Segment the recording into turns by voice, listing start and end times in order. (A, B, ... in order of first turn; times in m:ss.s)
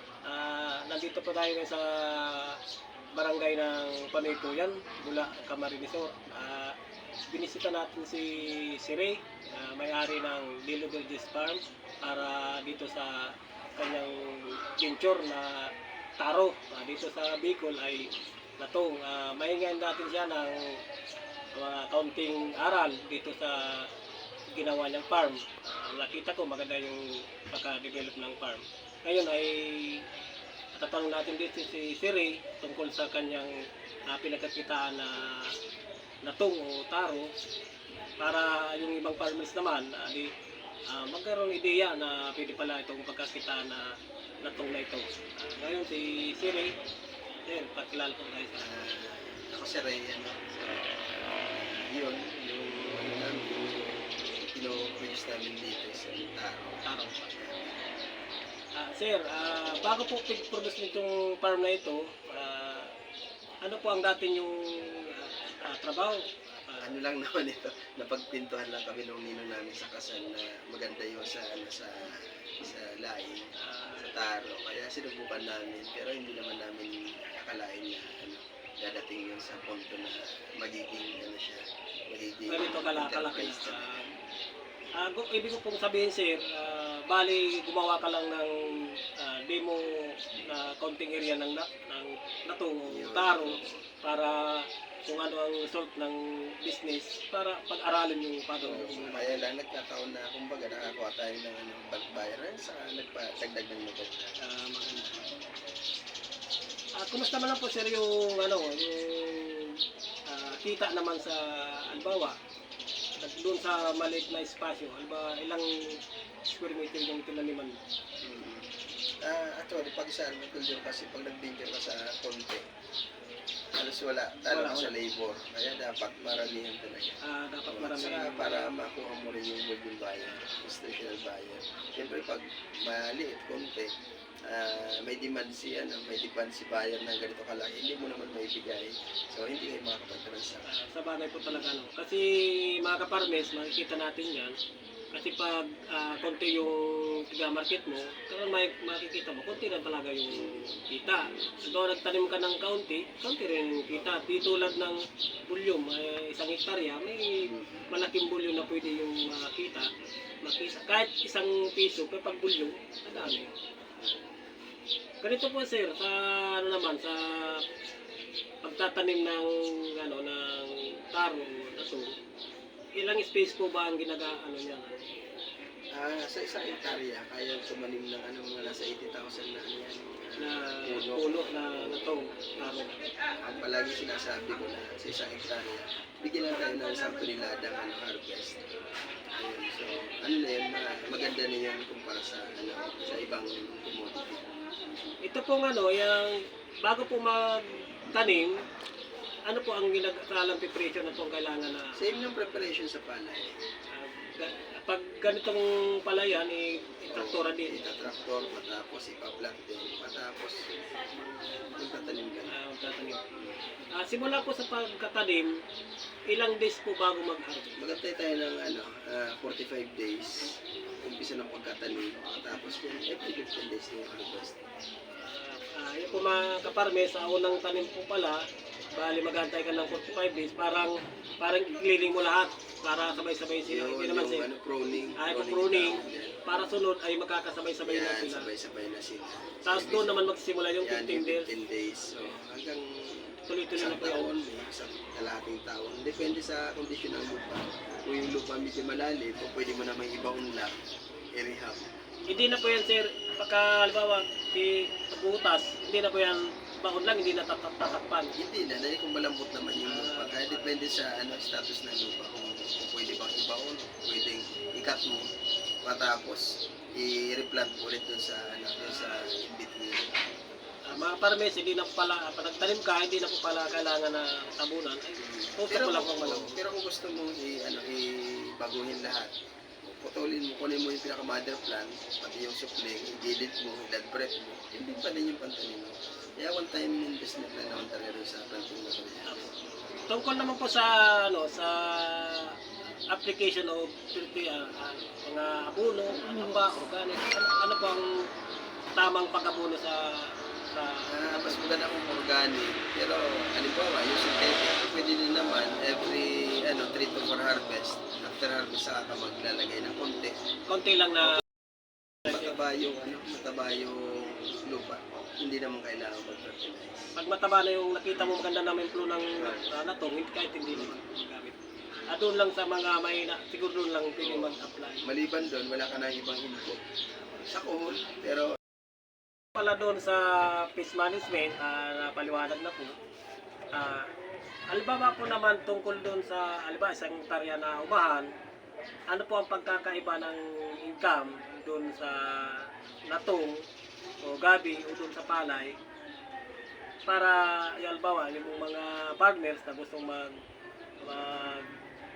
0:00.2-0:02.6 A
0:03.2-0:06.8 A
0:07.3-0:20.8 A
0:21.5-0:23.9 A
0:24.5-0:30.1 A
0:30.8-0:33.6 A
0:34.1-0:35.6 A
0:36.2-0:37.3 A
0:38.2-0:40.3 A
0:40.9-0:46.7 A
0:47.5-0:48.9 A
0:48.6-0:57.9 B
0:56.8-0:57.3 A
0:58.8-1:02.9 A
1:03.6-1:06.9 A
1:06.8-1:24.1 B
1:13.6-1:14.1 A
1:22.5-1:24.0 A
1:25.0-1:39.4 A
1:32.9-1:33.8 B
1:38.6-1:44.4 B
1:44.4-1:45.2 A
1:47.0-1:52.4 A
1:53.2-1:57.8 A
1:58.2-1:58.7 B
1:59.2-2:02.6 B
2:03.7-2:13.9 B
2:04.5-2:04.9 A
2:07.2-2:08.5 A
2:10.3-2:10.6 A
2:14.4-2:20.7 B
2:20.7-2:24.6 A
2:25.1-2:39.9 A
2:30.4-2:30.8 B
2:37.4-2:37.9 B
2:40.4-2:43.5 A
2:43.2-2:43.4 B
2:44.0-2:44.3 B
2:45.2-2:47.6 A
2:48.6-2:52.1 A
2:53.0-2:55.2 A
2:56.0-3:02.9 B
3:00.4-3:03.0 A
3:03.4-3:08.7 B
3:09.3-3:14.5 B
3:15.3-3:18.6 A
3:19.5-3:22.0 A
3:22.0-3:23.6 B
3:23.9-3:27.8 A
3:27.1-3:32.5 B
3:32.5-3:33.2 A
3:34.0-3:35.5 A
3:36.3-3:37.8 A
3:37.8-3:44.6 B
3:45.2-3:48.4 A
3:49.0-3:54.5 A
3:53.6-3:56.4 B
3:55.2-3:58.5 A
3:57.8-4:00.2 B
3:59.6-4:01.5 A
4:00.8-4:10.7 B
4:03.5-4:04.3 A
4:11.4-4:11.8 B
4:12.3-4:18.3 A
4:18.4-4:25.3 B
4:19.9-4:20.7 A
4:25.8-4:30.2 B
4:30.9-4:36.5 A
4:35.2-4:39.3 B
4:39.8-4:49.5 B
4:49.2-4:49.5 A
4:50.1-4:52.6 A
4:53.1-4:58.1 A
4:59.0-5:01.6 A
5:01.1-5:10.4 B
5:10.7-5:11.4 A
5:12.2-5:17.1 B
5:17.2-5:21.6 A
5:19.4-5:19.7 B
5:22.1-5:25.1 A
5:24.2-5:26.8 B
5:27.5-5:28.6 B
5:29.6-5:33.0 A
5:33.7-5:34.1 A
5:34.7-5:38.3 A
5:39.1-5:43.7 A
5:44.2-5:45.8 A
5:47.1-5:50.4 A
5:51.0-5:51.8 A